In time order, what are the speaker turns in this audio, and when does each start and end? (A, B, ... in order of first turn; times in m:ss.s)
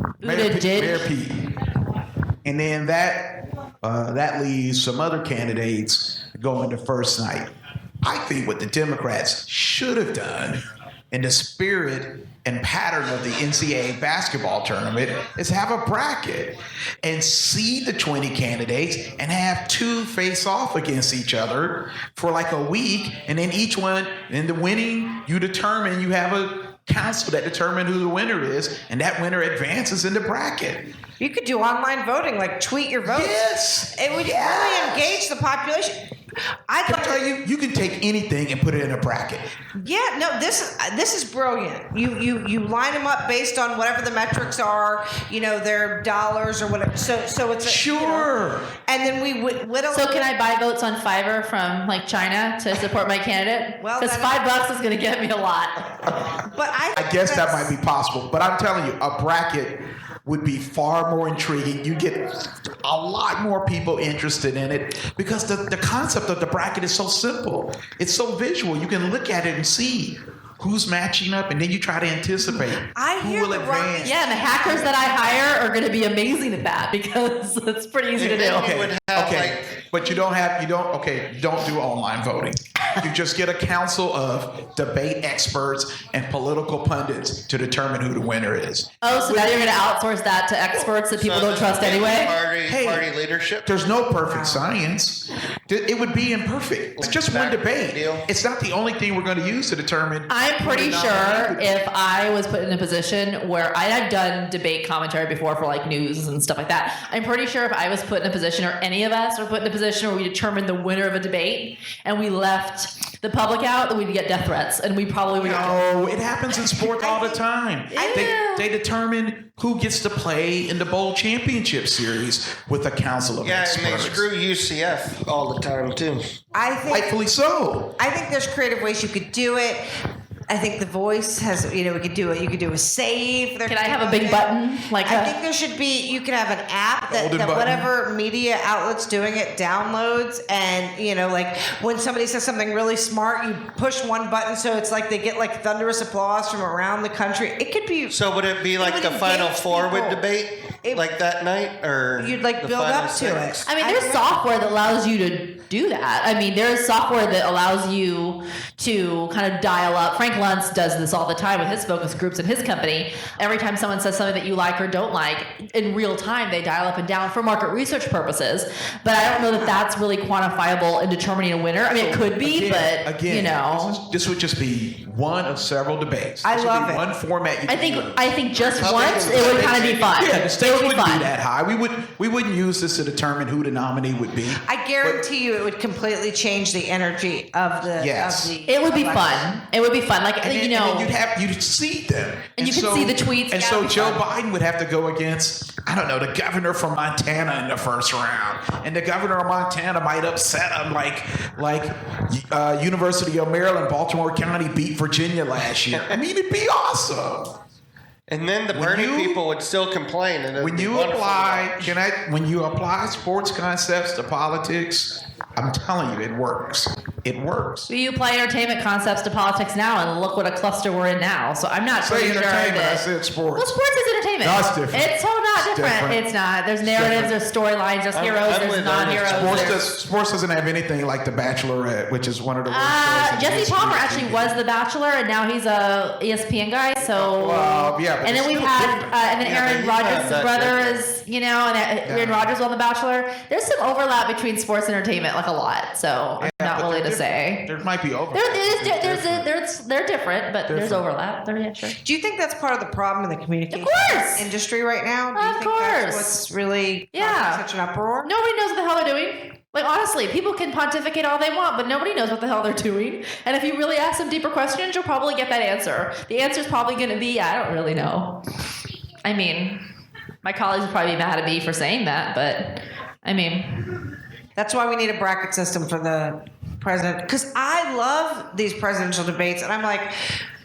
0:00.2-0:01.1 A
0:00.2-0:01.5 B
0:02.4-0:07.5 B
0:08.0-0:30.9 B
0:31.2-0:36.0 C
0:33.1-0:35.2 B
0:36.7-0:37.4 C
0:36.9-0:39.5 B
0:39.8-0:48.3 C
0:47.6-0:48.7 B
0:48.9-0:50.3 C
0:49.9-0:56.1 A
0:53.8-0:54.4 C
0:56.4-0:57.7 C
0:57.0-1:14.2 B
1:12.9-1:15.2 C
1:14.0-1:18.7 A
1:18.2-1:19.7 D
1:18.5-1:29.9 B
1:29.0-1:32.3 A
1:31.1-1:33.7 D
1:32.7-1:33.1 B
1:33.6-1:41.8 B
1:34.0-1:34.7 C
1:37.0-1:38.3 D
1:40.3-1:55.8 A
1:55.4-2:04.3 B
1:56.8-1:57.4 C
1:57.9-1:58.7 A
1:58.0-1:58.3 C
2:03.4-2:06.2 D
2:06.5-2:07.1 C
2:06.9-2:08.0 B
2:08.0-2:09.8 C
2:10.5-2:14.5 C
2:13.6-2:15.3 A
2:15.0-2:28.2 C
2:17.1-2:17.9 B
2:28.1-2:33.6 D
2:28.8-2:30.2 C
2:32.2-2:34.4 C
2:33.7-2:54.0 A
2:51.9-3:05.2 B
2:56.4-2:57.0 C
2:57.7-3:01.3 A
2:58.8-3:00.2 D
3:04.6-3:09.5 C
3:08.0-3:08.5 B
3:08.7-3:11.1 A
3:10.4-3:27.6 B
3:12.6-3:14.2 A
3:25.9-3:26.2 D
3:28.3-3:31.9 D
3:28.7-3:29.4 B
3:30.6-3:37.9 B
3:37.9-3:49.8 A
3:42.0-3:43.8 B
3:44.4-3:46.3 B
3:46.8-3:47.4 B
3:48.1-3:49.8 D
3:49.3-3:54.6 B
3:52.6-4:07.7 A
3:57.1-3:59.2 B
3:59.4-4:01.0 D
4:02.0-4:02.5 B
4:06.4-4:09.5 B
4:08.3-4:12.0 A
4:10.7-4:11.0 B
4:12.0-4:18.3 C
4:13.7-4:14.5 A
4:15.4-4:16.4 A
4:17.1-4:17.6 A
4:18.2-4:28.4 A
4:29.2-4:29.8 A
4:30.4-4:33.9 A
4:34.6-4:40.2 C